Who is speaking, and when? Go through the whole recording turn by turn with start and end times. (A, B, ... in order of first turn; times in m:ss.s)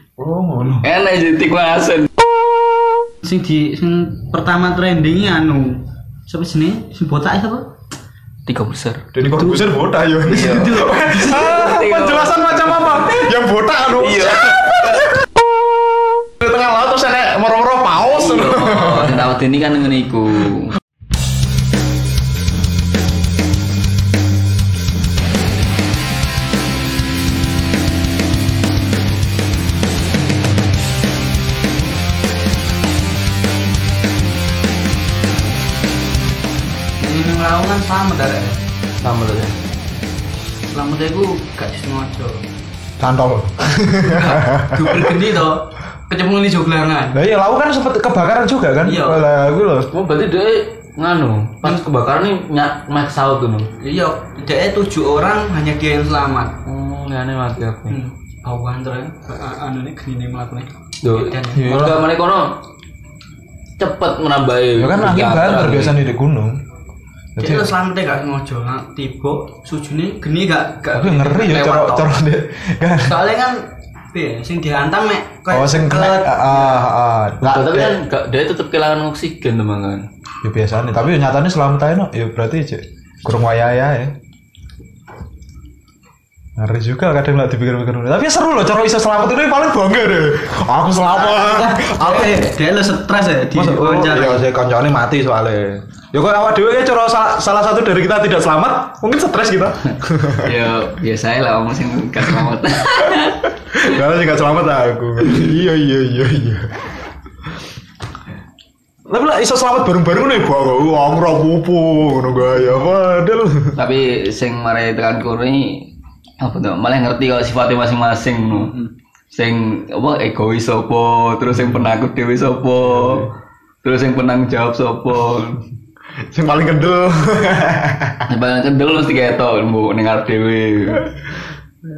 0:00.2-0:00.9 A
0:00.8-0:02.1 B
0:03.2-0:07.6 C
0:08.5-0:09.1 B
0:09.1-0:15.5 A
0:09.4-0:09.7 C
0:10.3-0:11.5 C
0:10.3-0:13.1 B
0:14.0-0:15.1 B
0:16.0-0:19.3 A
0:18.1-0:20.7 B
0:37.0-0:38.6 C
0:39.0-0:39.5 B
0:40.7-0:42.4 C
0:43.0-0:45.1 A
0:44.0-0:47.2 C
0:47.1-0:49.9 A
0:48.8-0:49.3 C
0:49.9-0:53.7 B
0:53.8-0:56.6 C
0:56.6-0:58.0 B
0:57.9-1:01.7 C
1:01.0-1:02.6 B
1:01.5-1:02.0 A
1:03.8-1:06.0 B
1:04.8-1:06.6 A
1:07.4-1:07.7 A
1:07.4-1:12.1 C
1:10.9-1:13.2 A
1:13.0-1:16.9 C
1:15.5-1:18.0 A
1:17.4-1:20.1 B
1:20.4-1:24.2 A
1:26.6-1:32.5 A
1:31.1-1:34.4 C
1:33.5-1:40.5 A
1:40.4-1:43.5 B
1:43.7-1:46.7 A
1:49.1-1:53.8 A
1:53.8-1:58.7 B
1:59.3-2:03.3 B
2:02.9-2:03.3 A
2:03.8-2:05.6 B
2:06.3-2:08.3 A
2:08.3-2:11.1 B